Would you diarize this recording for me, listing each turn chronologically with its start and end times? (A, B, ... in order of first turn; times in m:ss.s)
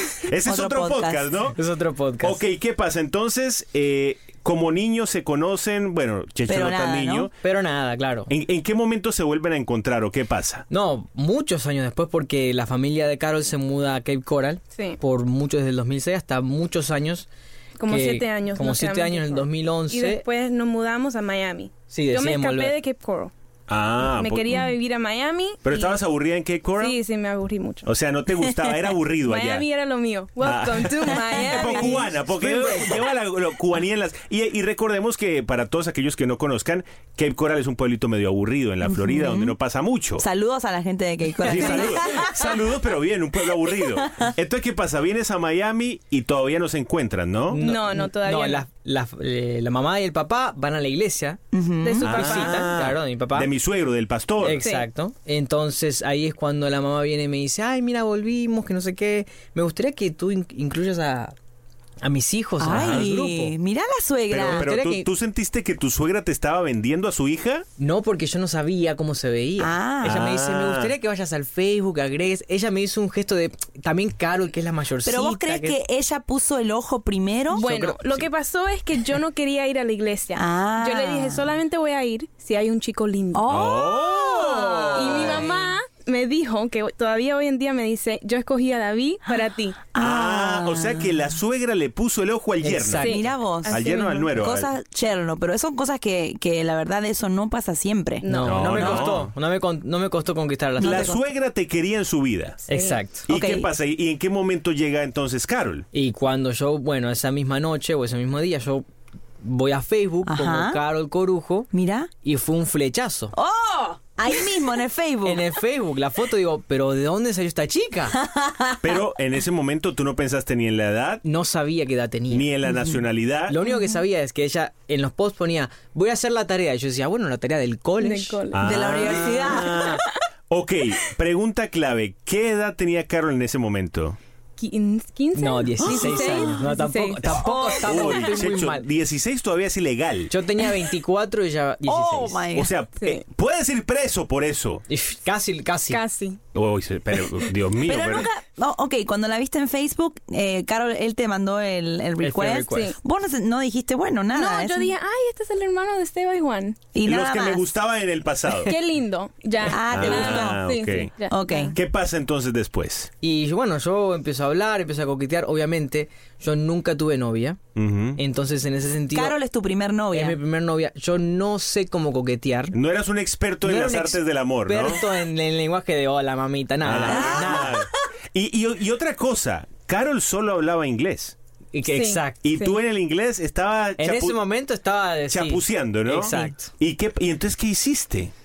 0:00.3-0:01.6 A
0:00.4-0:01.5 B
0:01.6-0:02.4 C
0:02.2-0:07.3 A
0:06.5-0:07.3 B
0:07.4-0:08.3 C
0:08.3-0:10.6 A
0:10.7-0:17.3 C
0:17.8-0:23.3 D
0:17.9-0:20.2 C
0:21.9-0:22.8 C
0:23.7-0:24.6 A
0:24.1-0:26.0 D
0:25.6-0:27.0 A
0:26.8-0:27.9 D
0:27.8-0:29.6 A
0:29.2-0:32.1 D
0:30.4-0:40.2 A
0:31.2-0:32.0 B
0:32.4-0:32.8 C
0:38.8-0:39.5 B
0:40.2-0:42.6 B
0:41.5-0:47.6 A
0:43.6-0:44.3 B
0:47.5-0:51.4 C
0:47.6-0:48.6 D
0:51.5-0:52.1 B
0:51.8-0:52.8 D
0:52.0-0:54.6 A
0:52.1-0:53.5 C
0:54.4-1:01.3 C
0:54.6-0:54.9 D
1:02.0-1:03.5 C
1:02.6-1:04.7 B
1:02.7-1:03.1 A
1:04.3-1:07.6 A
1:04.5-1:05.0 C
1:07.8-1:15.8 C
1:09.6-1:10.2 B
1:10.0-1:10.9 A
1:15.0-1:17.7 B
1:17.5-1:23.5 D
1:17.6-1:17.9 C
1:20.4-1:21.5 B
1:23.3-1:25.4 B
1:23.5-1:25.5 A
1:24.9-1:29.9 D
1:29.9-1:31.2 B
1:30.0-1:34.7 A
1:32.6-1:33.2 C
1:33.0-1:34.3 D
1:33.0-1:39.1 B
1:38.2-1:38.6 D
1:38.3-1:41.1 C
1:38.4-1:39.3 A
1:40.8-1:41.2 B
1:40.8-1:42.6 A
1:42.7-1:43.2 C
1:42.7-1:43.0 D
1:43.3-1:45.8 A
1:43.3-1:43.7 B
1:45.9-1:48.8 C
1:49.4-1:51.7 C
1:50.2-1:50.8 B
1:51.7-1:52.1 B
1:52.2-1:53.3 C
1:53.3-1:55.4 B
1:55.2-1:58.2 C
1:58.1-1:58.9 B
1:58.8-2:01.2 A
2:01.2-2:02.4 C
2:02.3-2:03.5 A
2:02.6-2:03.0 B
2:03.5-2:08.4 C
2:08.0-2:09.1 D
2:08.5-2:14.2 A
2:08.6-2:09.8 B
2:14.6-2:18.2 D
2:15.3-2:18.9 C
2:15.8-2:16.6 B
2:17.2-2:20.3 A
2:20.3-2:22.4 C
2:21.8-2:22.7 B
2:22.5-2:24.8 A
2:24.9-2:26.0 C
2:25.9-2:26.4 D
2:26.5-2:28.3 A
2:27.8-2:34.9 B
2:32.2-2:32.9 C
2:34.3-2:36.9 D
2:36.9-2:37.6 B
2:37.0-2:38.7 A
2:38.6-2:41.8 D
2:39.7-2:40.6 B
2:39.8-2:41.1 A
2:41.3-2:41.8 B
2:41.7-2:43.1 A
2:43.2-2:47.6 C
2:47.8-2:48.2 A
2:48.2-2:49.4 C
2:49.1-2:50.4 B
2:50.1-2:52.8 C
2:52.7-2:55.0 A
2:53.6-2:57.7 C
2:56.8-3:01.4 A
2:57.0-2:57.8 B
3:01.7-3:02.5 C
3:01.9-3:02.8 D
3:02.4-3:04.4 A
3:04.0-3:06.7 C
3:05.3-3:08.3 A